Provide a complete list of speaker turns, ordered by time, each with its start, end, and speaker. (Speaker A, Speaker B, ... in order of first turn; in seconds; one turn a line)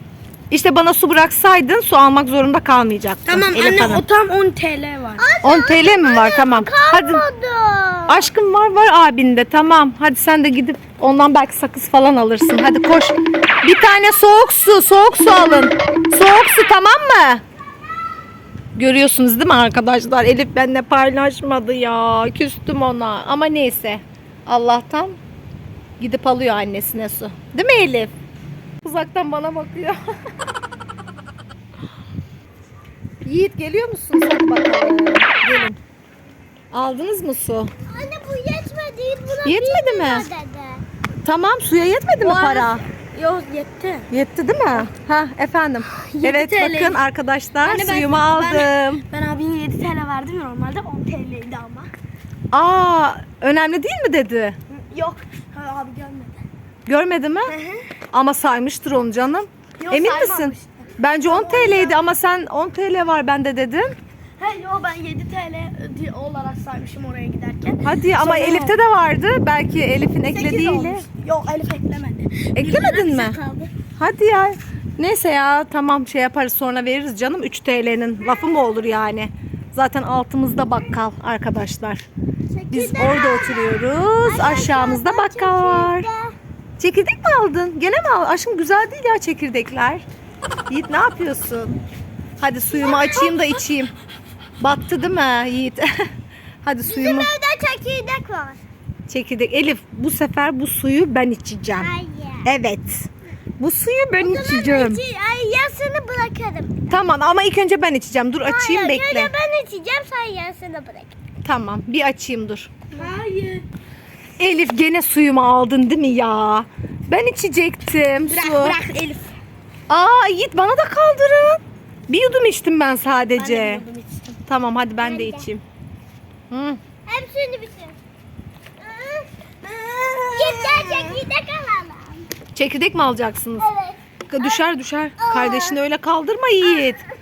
Speaker A: 0.5-4.0
Speaker B: 3.2-5.3
Speaker C: 5.2-8.3
Speaker A: 5.4-7.2
Speaker A: 8.1-17.4
Speaker A: 18.8-25.2
Speaker A: 26.0-28.1
Speaker A: 28.8-30.0
Speaker A: 33.2-35.8
Speaker A: 36.7-37.7
Speaker C: 37.9-40.8
Speaker A: 39.4-40.3
Speaker A: 41.2-42.8
Speaker B: 42.2-44.1
Speaker A: 44.1-49.0
Speaker B: 45.9-47.0
Speaker B: 47.6-51.9
Speaker A: 52.5-54.6
Speaker B: 54.7-56.4
Speaker A: 56.9-57.5
Speaker B: 57.5-57.9
Speaker A: 58.1-63.9
Speaker B: 59.8-62.0
Speaker B: 64.4-68.8
Speaker A: 67.8-71.0
Speaker B: 70.3-73.7
Speaker A: 72.5-73.4
Speaker A: 74.0-82.0
Speaker C: 82.5-86.3
Speaker A: 82.7-86.1
Speaker A: 86.8-90.0
Speaker A: 90.7-91.8
Speaker A: 92.4-93.9
Speaker C: 92.9-93.3
Speaker A: 94.6-95.8
Speaker A: 96.6-97.3
Speaker C: 96.8-98.6
Speaker A: 99.1-101.9
Speaker C: 101.8-102.5
Speaker A: 102.4-105.0
Speaker C: 104.2-107.0
Speaker A: 106.9-109.3
Speaker C: 108.4-111.1
Speaker A: 111.4-112.7
Speaker B: 112.9-113.7
Speaker A: 114.4-118.8
Speaker B: 118.2-119.3
Speaker A: 119.9-123.8
Speaker B: 123.3-124.4
Speaker A: 124.5-125.6
Speaker C: 125.0-125.5
Speaker A: 126.5-126.8
Speaker C: 127.0-128.0
Speaker C: 128.8-129.3
Speaker B: 129.6-131.2
Speaker C: 130.3-132.3
Speaker A: 132.5-133.7
Speaker C: 133.6-134.6
Speaker A: 134.3-137.0
Speaker C: 135.2-135.8